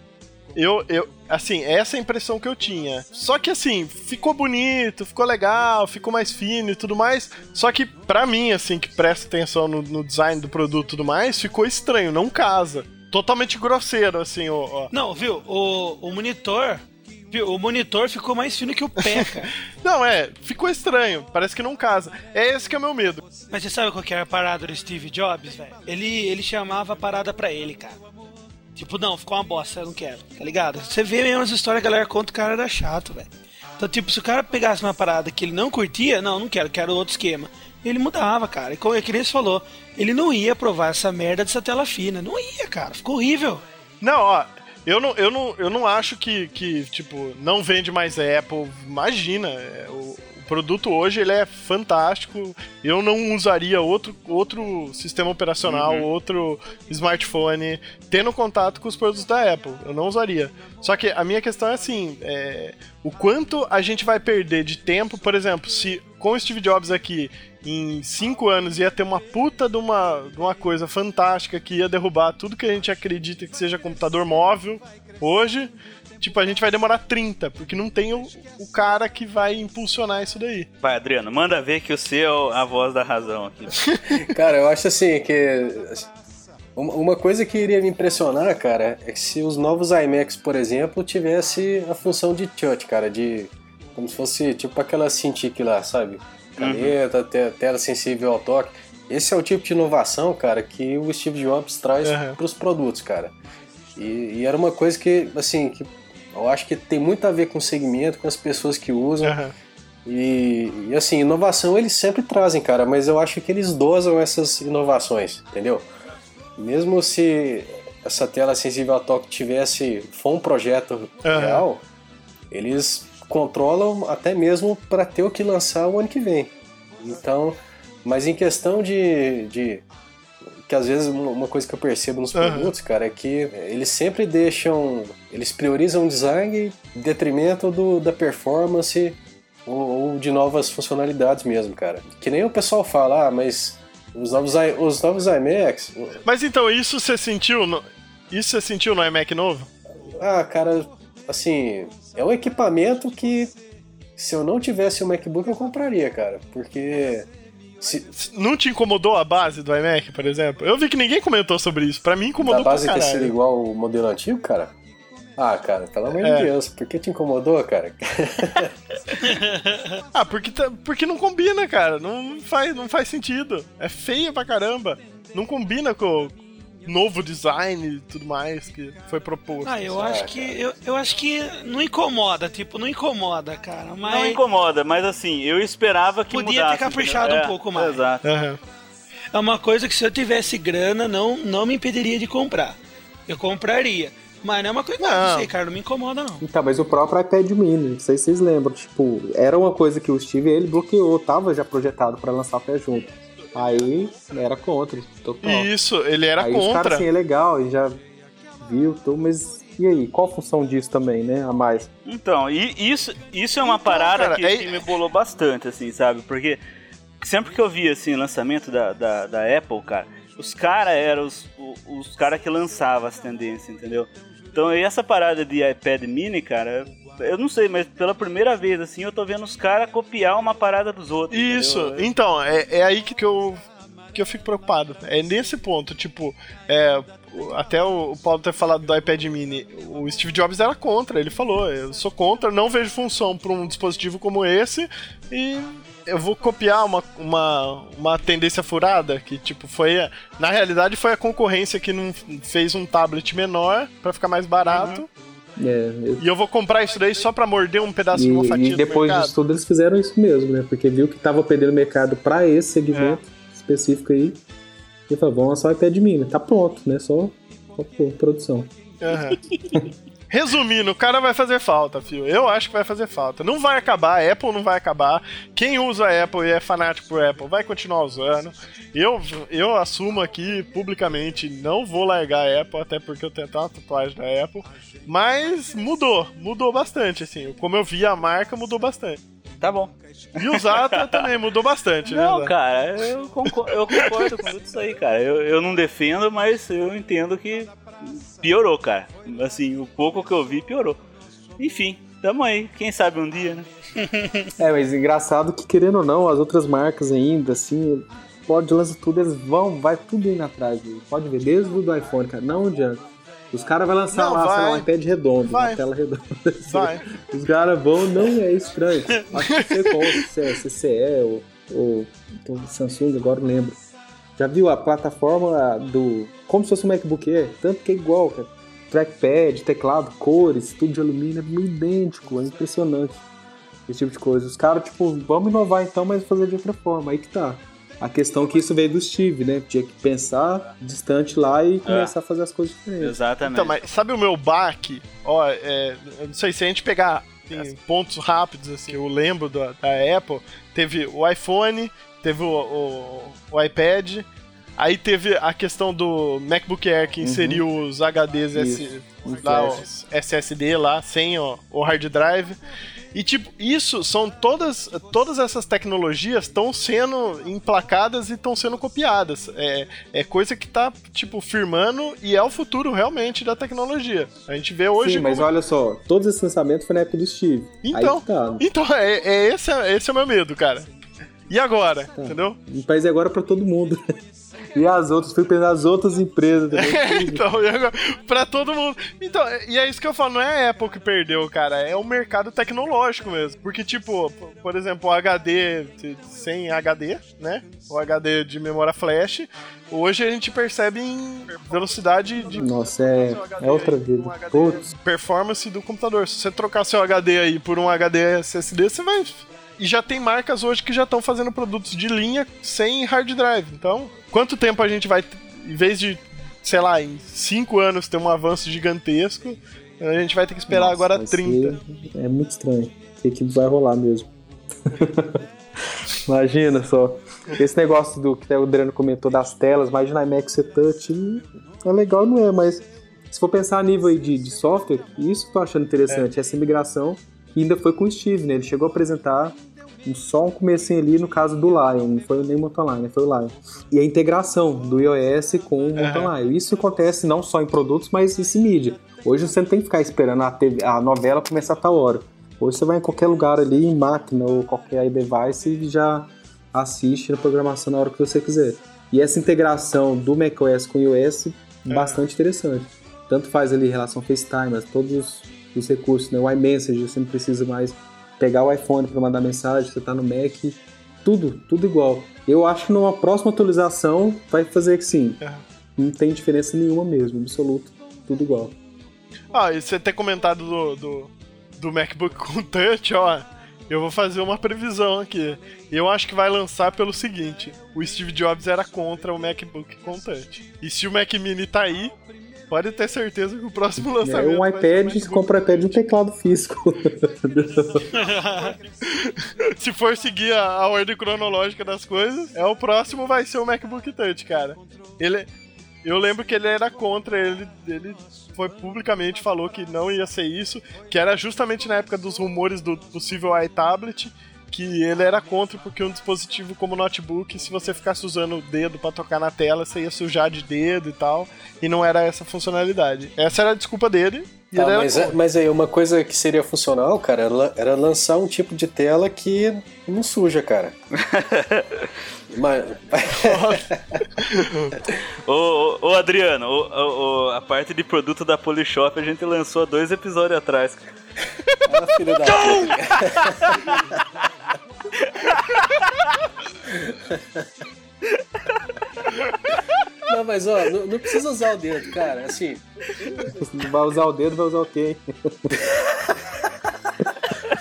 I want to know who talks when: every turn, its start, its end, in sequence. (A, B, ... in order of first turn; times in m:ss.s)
0:00.6-0:14.9 A
0:14.9-0:19.5 B
0:19.0-0:19.3 A
0:19.8-0:23.2 A
0:23.5-0:28.0 B
0:28.7-0:43.6 B
0:44.0-1:20.7 A
0:55.6-0:56.1 C
1:20.8-1:23.8 C
1:24.1-1:26.1 D
1:26.8-1:43.3 D
1:36.6-1:37.0 C
1:42.0-1:42.4 A
1:44.0-1:49.4 D
1:49.2-1:49.5 A
1:50.0-1:55.9 D
1:56.6-2:01.8 D
2:01.2-2:01.6 A
2:02.5-2:09.8 D
2:10.6-2:26.2 D
2:12.3-2:12.7 A
2:26.2-2:29.7 A
2:30.1-2:33.5 D
2:34.2-2:37.3 D
2:37.8-2:38.1 D
2:38.1-2:43.3 A
2:42.4-2:44.7 D
2:45.4-2:48.7 D
2:46.2-2:46.5 A
2:49.2-2:50.0 B
2:50.1-2:59.9 A
2:59.6-3:04.4 B
2:59.9-3:00.6 D
3:04.0-3:08.3 C
3:06.3-3:08.0 B
3:08.2-3:08.6 A
3:09.3-3:16.4 B
3:15.0-3:15.5 A
3:16.4-3:25.7 E
3:25.4-3:27.0 A
3:26.4-3:28.0 E
3:28.6-3:31.9 E
3:32.0-3:36.6 C
3:33.6-3:34.8 A
3:37.2-3:52.1 C
3:51.3-3:53.6 A
3:54.1-4:15.1 A
4:14.6-4:15.0 C
4:15.6-4:16.2 E
4:16.2-4:19.3 A
4:18.1-4:24.4 E
4:22.9-4:23.2 A
4:25.1-4:29.9 E
4:29.0-4:29.4 A
4:30.3-4:49.2 A
4:49.6-4:49.9 C
4:50.4-4:52.5 A
4:50.4-4:51.2 C
4:52.1-5:01.0 C
4:53.9-4:54.3 A
5:01.6-5:03.7 C
5:04.0-5:04.5 B
5:04.6-5:23.8 E
5:14.1-5:14.9 A
5:15.5-5:15.8 A
5:16.7-5:17.1 A
5:19.4-5:20.2 A
5:24.4-5:33.2 E
5:33.9-5:43.2 E
5:41.8-5:42.1 C
5:43.0-5:43.7 C
5:43.4-5:54.2 A
5:54.8-6:02.6 A
5:57.2-5:57.6 E
5:58.5-5:59.8 E
6:03.1-6:15.5 A
6:15.0-6:18.6 E
6:17.8-6:20.9 A
6:21.5-6:22.6 A
6:22.2-6:24.0 E
6:24.7-6:27.4 E
6:26.7-7:01.8 A
6:42.5-6:44.9 E
7:00.7-7:04.3 E
7:04.8-7:05.4 E
7:06.2-7:55.4 E
7:26.0-7:26.3 A
7:41.9-7:42.2 A
7:56.0-7:58.7 E
7:59.5-8:12.1 A
8:12.7-8:15.9 A
8:14.2-8:18.1 E
8:18.1-8:18.7 B
8:18.5-8:25.5 A
8:26.0-8:45.4 A
8:44.8-8:50.9 D
8:51.1-8:52.1 C
8:52.5-8:54.2 D
8:53.3-8:55.0 A
8:55.5-9:01.1 C
9:01.8-9:04.0 D
9:02.5-9:04.2 C
9:05.2-9:06.4 C
9:06.9-9:07.6 D
9:08.3-9:09.8 C
9:10.3-9:12.8 D
9:13.5-9:15.8 E
9:15.9-9:16.5 D